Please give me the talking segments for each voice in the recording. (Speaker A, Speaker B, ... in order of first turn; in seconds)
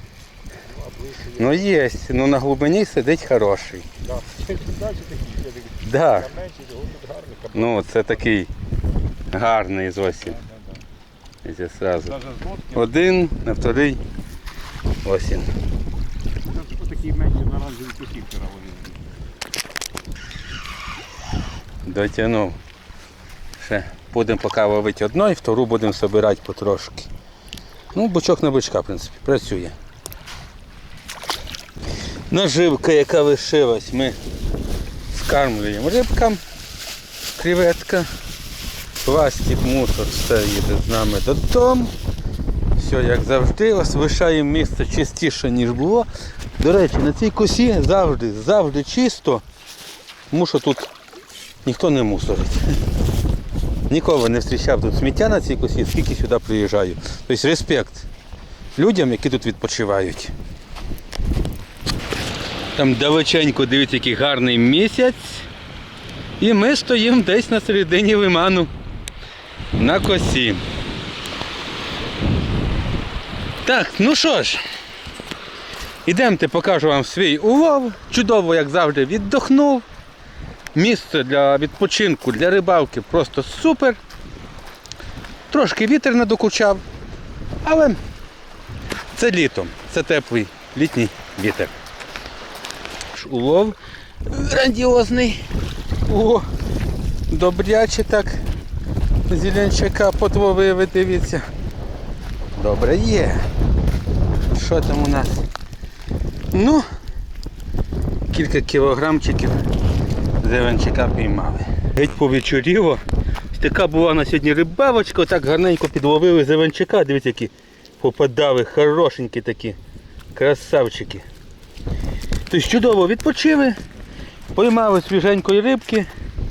Speaker A: 1.2-3.9, 5.8-6.5, 7.5-8.5, 9.3-10.4, 11.4-14.0, 15.0-15.5, 21.8-22.6, 23.6-27.1, 27.9-29.8, 32.3-34.2, 35.1-36.4, 37.3-38.1, 39.0-41.9, 42.8-49.5, 50.3-50.9, 51.6-52.8, 53.9-58.1, 58.8-60.3, 62.7-65.5, 66.4-68.7, 69.8-70.7, 73.6-74.6, 76.0-79.9, 80.7-84.0, 85.5-86.8, 87.6-88.0, 89.1-91.7, 93.1-95.5, 96.0-96.5, 97.3-98.4, 99.3-101.5, 102.6-103.5, 104.5-105.5, 106.5-106.9, 108.3-109.6, 110.4-119.8, 120.3-121.2, 122.5-123.8, 124.5-126.1
Speaker B: 4.6-5.5, 6.7-7.4, 16.7-18.8